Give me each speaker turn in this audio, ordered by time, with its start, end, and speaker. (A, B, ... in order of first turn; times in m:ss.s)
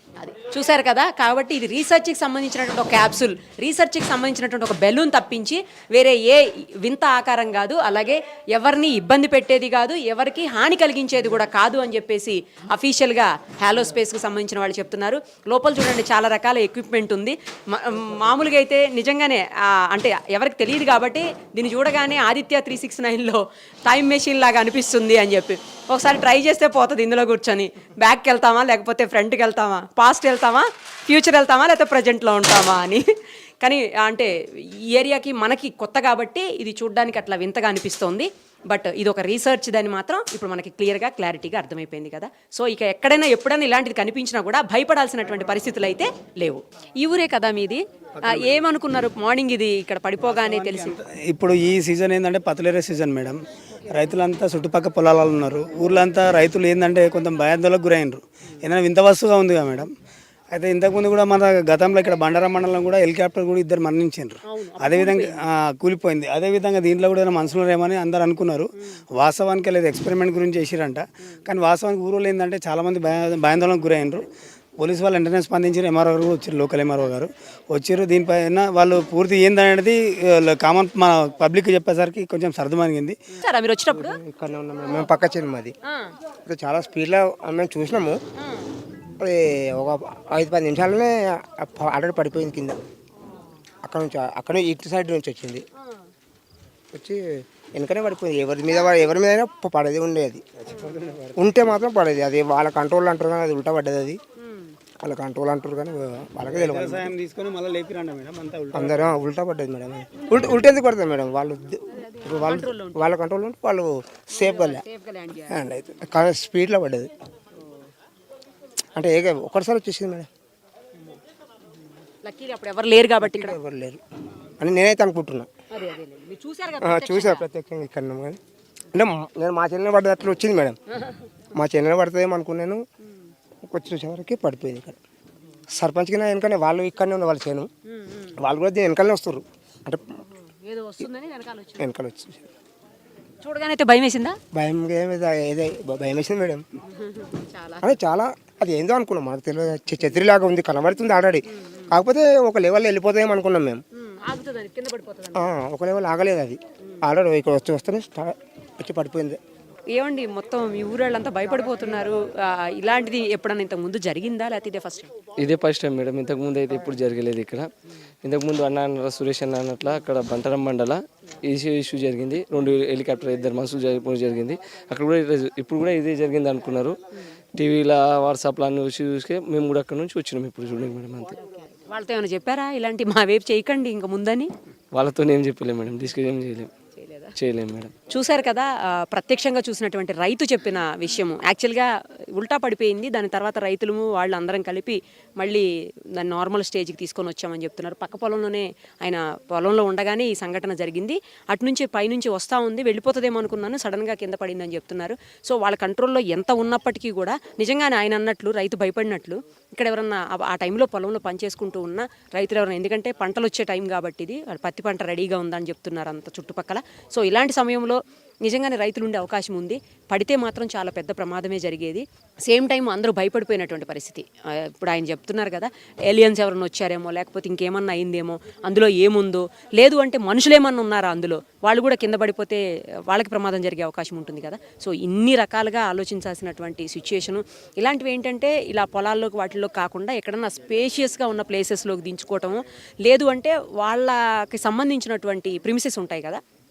0:00.2-0:33.0 A
0:33.6-0:34.3 A
0:34.8-0:51.0 A
0:48.2-0:48.6 B
0:50.3-0:59.9 B
1:00.5-1:14.2 B
1:04.4-1:05.4 A
1:14.8-1:23.2 B
1:23.4-1:24.2 A
1:23.9-1:25.7 C
1:25.8-1:26.1 A
1:26.4-1:28.2 C
1:28.4-1:28.7 A
1:29.2-1:32.8 C
1:33.8-1:35.6 C
1:36.9-1:40.4 C
1:40.7-1:41.3 B
1:41.3-1:44.2 C
1:44.4-1:44.7 A
1:45.0-1:47.1 C
1:46.5-1:49.1 B
1:48.7-1:54.8 C
1:51.9-1:53.0 A
1:54.3-1:55.6 A
1:55.5-1:57.1 C
1:58.9-2:00.3 C
2:02.2-2:03.6 A
2:03.2-2:04.0 C
2:04.6-2:05.5 C
2:05.7-2:07.4 A
2:06.8-2:08.4 C
2:08.9-2:10.8 C
2:10.9-2:11.3 A
2:11.5-2:12.8 C
2:13.6-2:15.0 C
2:15.7-2:17.7 C
2:17.9-2:18.4 A
2:18.4-2:20.1 C
2:20.4-2:21.9 A
2:21.8-2:22.5 C
2:23.4-2:24.4 A
2:24.5-2:26.6 C
2:26.9-2:27.9 A
2:27.8-2:33.8 C
2:31.5-2:31.9 A
2:34.0-2:35.5 A
2:35.3-2:39.4 C
2:39.9-2:45.1 A
2:45.4-2:47.7 D
2:48.2-2:57.0 D
2:57.5-3:01.4 D
3:01.9-3:04.5 A
3:04.9-3:06.7 D
3:07.0-3:07.3 A
3:07.4-3:07.9 D
3:08.1-4:06.4 A